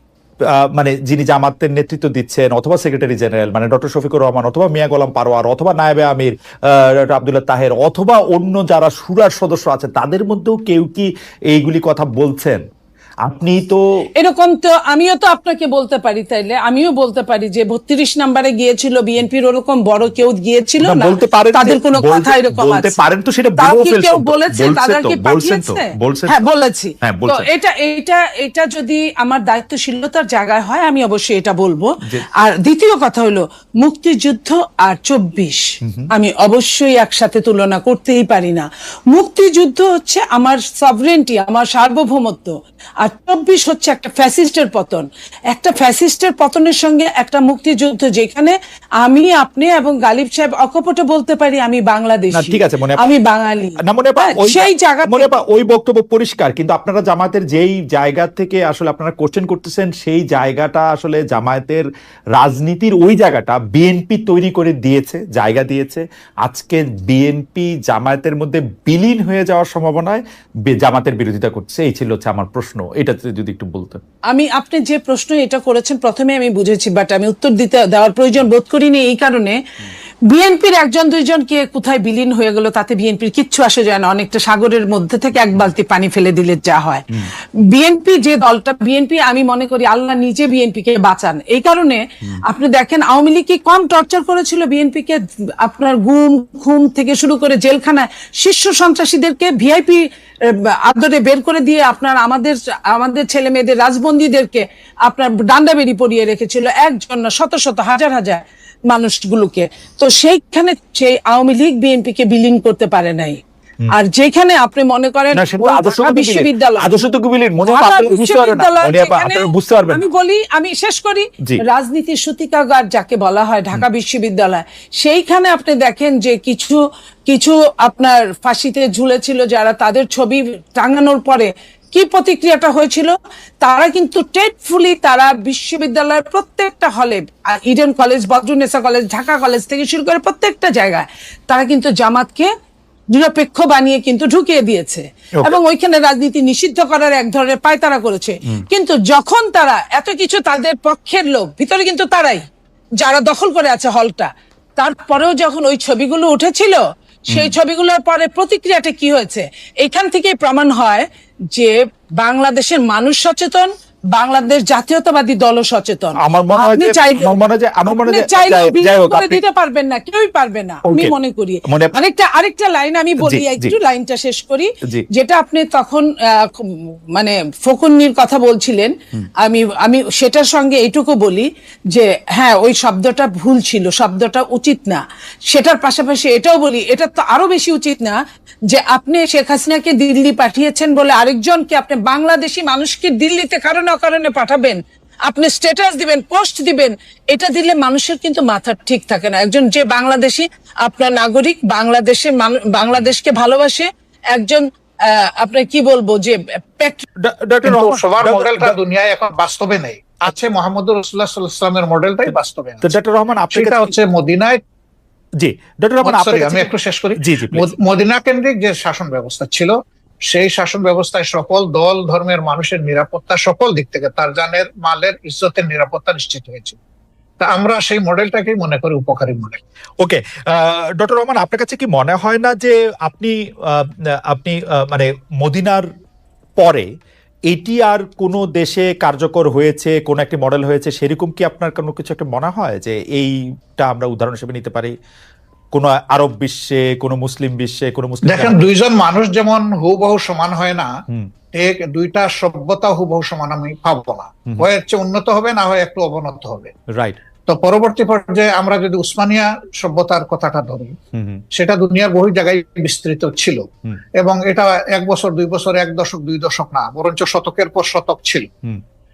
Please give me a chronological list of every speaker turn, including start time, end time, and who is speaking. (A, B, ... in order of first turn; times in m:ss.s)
0:00.5-0:12.6 A
0:13.2-0:13.8 A
0:14.2-0:23.0 B
0:20.8-0:26.4 A
0:23.6-0:55.3 B
0:27.0-0:27.5 A
0:35.8-0:36.1 A
0:52.3-0:53.0 A
0:53.8-1:14.0 A
1:14.3-1:19.6 B
1:20.3-1:53.4 B
1:53.9-1:56.9 B
1:55.3-2:00.0 A
1:57.6-2:22.5 B
2:23.1-2:32.4 B
2:33.0-2:47.3 B
2:46.2-2:49.4 A
2:47.8-3:08.2 B
2:50.8-2:51.1 A
2:51.6-2:51.9 A
2:53.2-2:53.7 A
3:08.7-3:27.0 B
3:27.2-3:28.7 A
3:27.6-3:32.9 C
3:32.8-3:33.9 A
3:33.5-3:34.6 C
3:35.4-3:37.7 A
3:36.0-3:39.8 C
3:40.3-3:46.8 C
3:47.4-3:49.6 C
3:50.0-3:55.9 A
3:56.6-3:56.8 A
3:57.5-4:04.9 A
4:05.7-4:08.6 A
4:08.2-4:10.9 C
4:11.5-4:16.7 C
4:17.5-4:20.9 C
4:21.1-4:21.4 A
4:21.5-4:23.6 C
4:24.2-4:28.5 C